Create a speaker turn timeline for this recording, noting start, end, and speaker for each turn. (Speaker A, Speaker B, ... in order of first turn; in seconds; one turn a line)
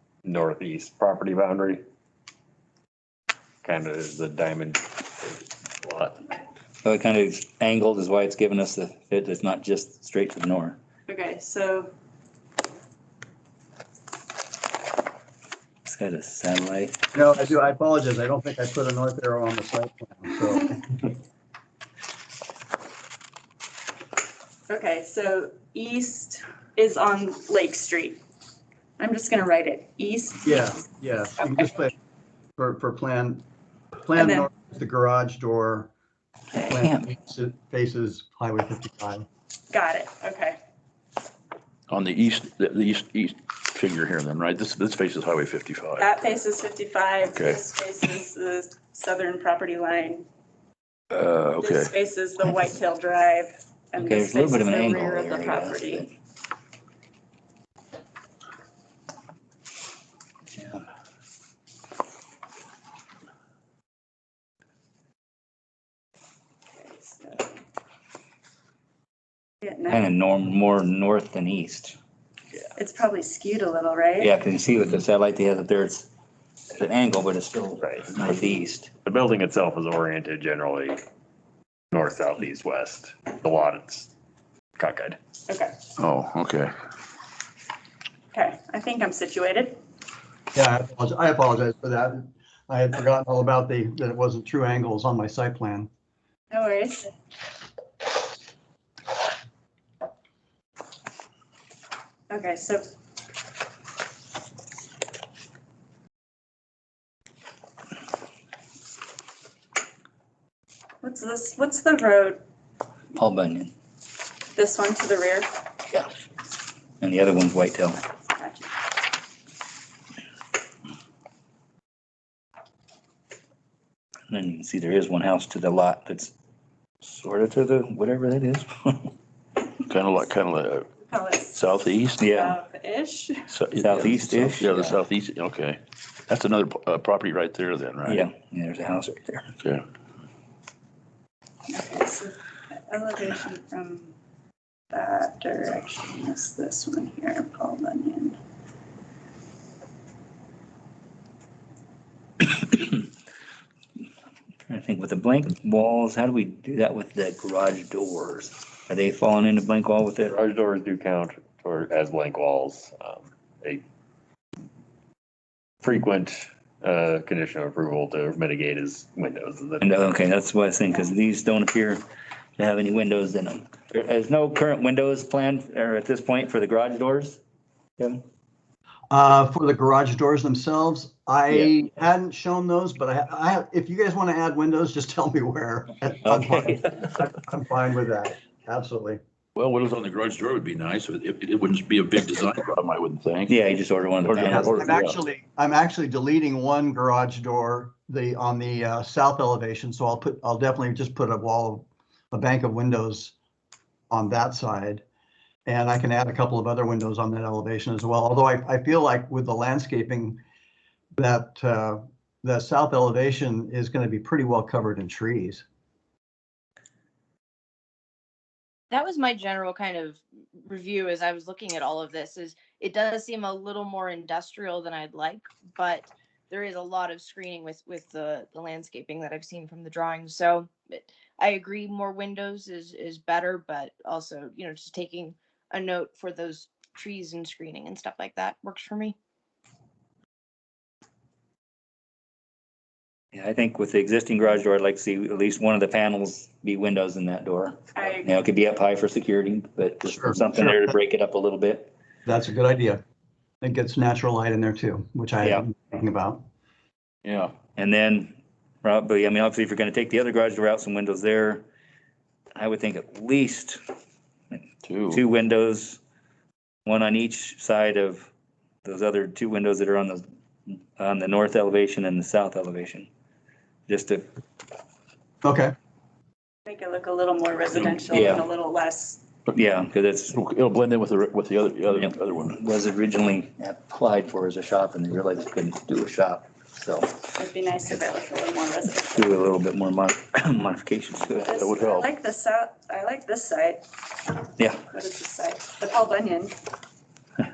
Speaker A: 0.2-1.8
Speaker A: 3.6-6.2
Speaker B: 6.8-10.8
Speaker C: 11.1-11.9
Speaker B: 15.8-17.0
Speaker D: 17.1-21.1
Speaker C: 24.7-28.2
Speaker C: 29.0-30.8
Speaker D: 30.4-31.9
Speaker D: 32.6-33.5
Speaker D: 34.0-35.9
Speaker C: 34.1-34.5
Speaker D: 36.6-39.2
Speaker B: 36.8-37.0
Speaker C: 39.7-40.6
Speaker E: 41.9-46.1
Speaker C: 46.0-50.2
Speaker E: 47.3-47.6
Speaker E: 51.1-51.9
Speaker C: 51.6-56.1
Speaker B: 54.0-56.1
Speaker B: 60.5-60.8
Speaker C: 66.8-67.5
Speaker C: 69.6-70.0
Speaker B: 69.9-72.0
Speaker C: 72.8-74.3
Speaker B: 74.2-76.1
Speaker B: 76.7-78.9
Speaker A: 77.8-78.2
Speaker A: 79.0-81.0
Speaker A: 81.9-84.1
Speaker A: 84.8-85.2
Speaker C: 85.5-85.7
Speaker E: 86.0-86.7
Speaker C: 88.3-89.8
Speaker D: 90.5-95.9
Speaker C: 96.5-97.1
Speaker C: 102.3-102.8
Speaker C: 111.0-112.4
Speaker B: 113.1-113.7
Speaker C: 114.5-115.5
Speaker B: 117.0-118.0
Speaker C: 118.3-118.7
Speaker B: 124.3-126.3
Speaker B: 127.0-129.1
Speaker E: 129.8-130.9
Speaker C: 131.0-131.6
Speaker E: 131.5-132.3
Speaker B: 132.2-132.6
Speaker C: 132.3-133.5
Speaker E: 133.5-138.3
Speaker B: 133.8-135.0
Speaker B: 138.1-139.5
Speaker C: 141.7-144.1
Speaker C: 144.9-148.4
Speaker B: 152.6-153.0
Speaker B: 154.7-160.3
Speaker A: 160.2-163.8
Speaker A: 165.8-169.9
Speaker B: 169.8-172.0
Speaker B: 172.6-177.4
Speaker D: 179.1-189.2
Speaker B: 186.2-186.9
Speaker E: 189.6-193.6
Speaker B: 193.5-194.9
Speaker E: 194.2-195.2
Speaker D: 194.4-203.3
Speaker D: 204.1-205.0
Speaker D: 205.7-210.4
Speaker D: 211.2-215.6
Speaker F: 218.9-239.2
Speaker B: 243.3-251.9
Speaker C: 247.9-248.3
Speaker D: 250.1-250.4
Speaker D: 252.2-253.0
Speaker D: 253.6-256.4
Speaker E: 257.2-257.5
Speaker B: 257.7-261.6
Speaker B: 262.6-263.8
Speaker B: 264.5-266.0
Speaker E: 264.8-265.2
Speaker B: 266.9-268.3
Speaker B: 268.8-273.1
Speaker B: 273.9-274.2
Speaker D: 275.4-275.7
Speaker C: 276.6-279.2
Speaker B: 278.1-278.4
Speaker B: 279.5-280.4
Speaker E: 280.3-282.6
Speaker B: 281.9-287.2
Speaker C: 287.4-289.3
Speaker B: 289.1-291.6
Speaker C: 291.4-293.8
Speaker E: 291.5-292.1
Speaker C: 294.9-296.6